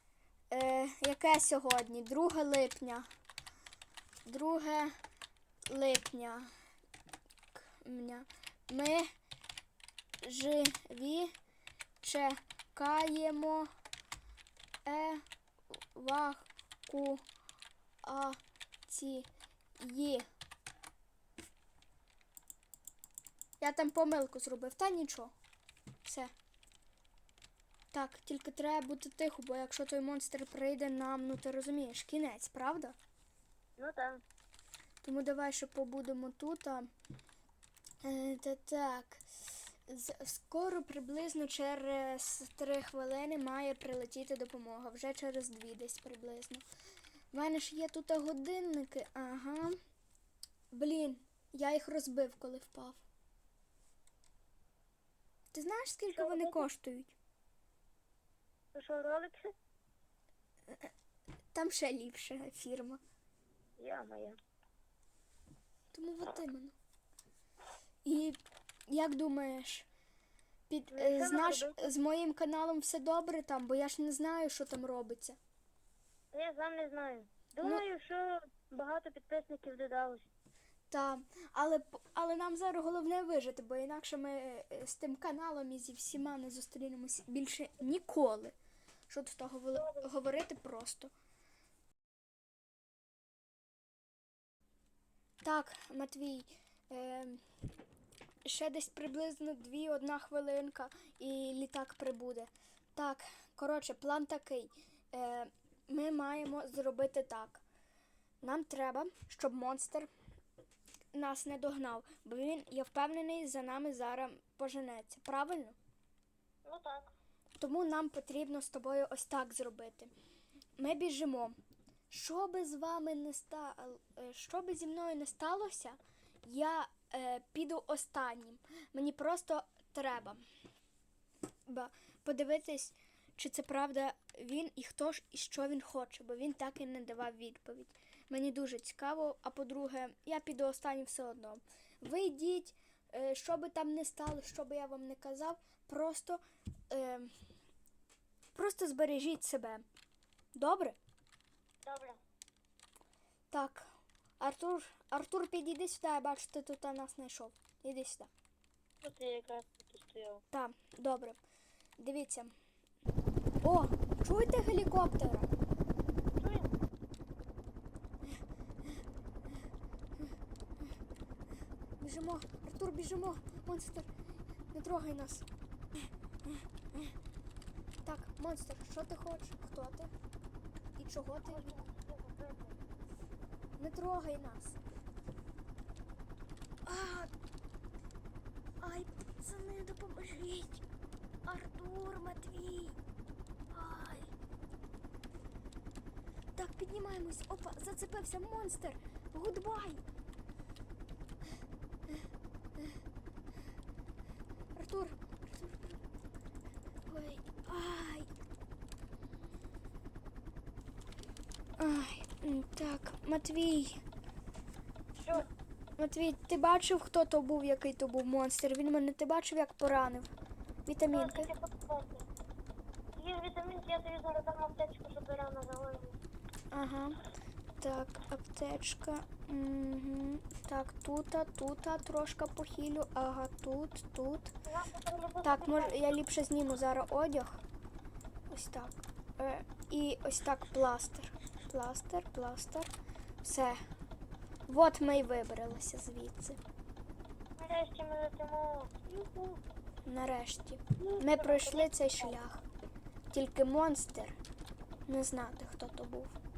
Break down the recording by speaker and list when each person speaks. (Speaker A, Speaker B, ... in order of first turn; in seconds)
Speaker A: 0.5-3.1, 4.2-4.9, 5.7-6.5, 7.8-9.1, 10.2-11.3, 12.0-13.7, 14.8-15.2, 15.9-17.2, 18.0-19.3, 19.8-20.2, 23.6-25.3, 26.0-26.3, 27.9-33.0, 35.0-36.9, 38.0-39.2, 39.9-46.6, 47.3-49.8, 50.7-53.0, 55.5-57.1, 61.5-63.0, 65.9-66.7, 68.0-69.8, 70.7-75.4, 80.9-88.5, 89.1-91.1, 95.4-97.4, 98.5-107.6, 108.4-110.1, 111.1-115.8, 117.6-120.1, 120.8-121.6, 122.1-130.4, 131.7-147.3, 148.5-149.8, 150.5-151.0, 153.5-153.9, 154.4-158.3, 160.5-161.4, 162.0-162.5, 163.6-165.5, 172.0-174.1, 174.7-175.4, 176.5-177.1, 178.0-180.1, 181.0-181.8, 183.8-184.8, 186.8-187.3, 188.8-190.8, 191.4-193.0, 193.7-194.3, 196.5-200.0, 204.8-205.9, 207.1-208.3, 211.8-214.0, 216.0-220.3, 220.8-221.5, 226.7-227.2, 227.8-234.5, 235.4-237.6, 238.5-242.9, 243.4-243.8, 244.7-246.6, 250.1-252.6, 253.3-254.4, 255.1-256.4
Speaker B: 33.8-34.2, 56.1-56.6, 58.7-59.5, 63.8-64.4, 70.9-71.9, 76.3-80.2, 89.8-90.1, 116.6-117.1, 151.8-152.2, 159.0-160.4, 166.4-166.7, 181.5-182.8, 215.2-215.5, 221.1-222.2, 223.2-226.1, 234.7-236.1, 247.6-249.6, 251.0-252.4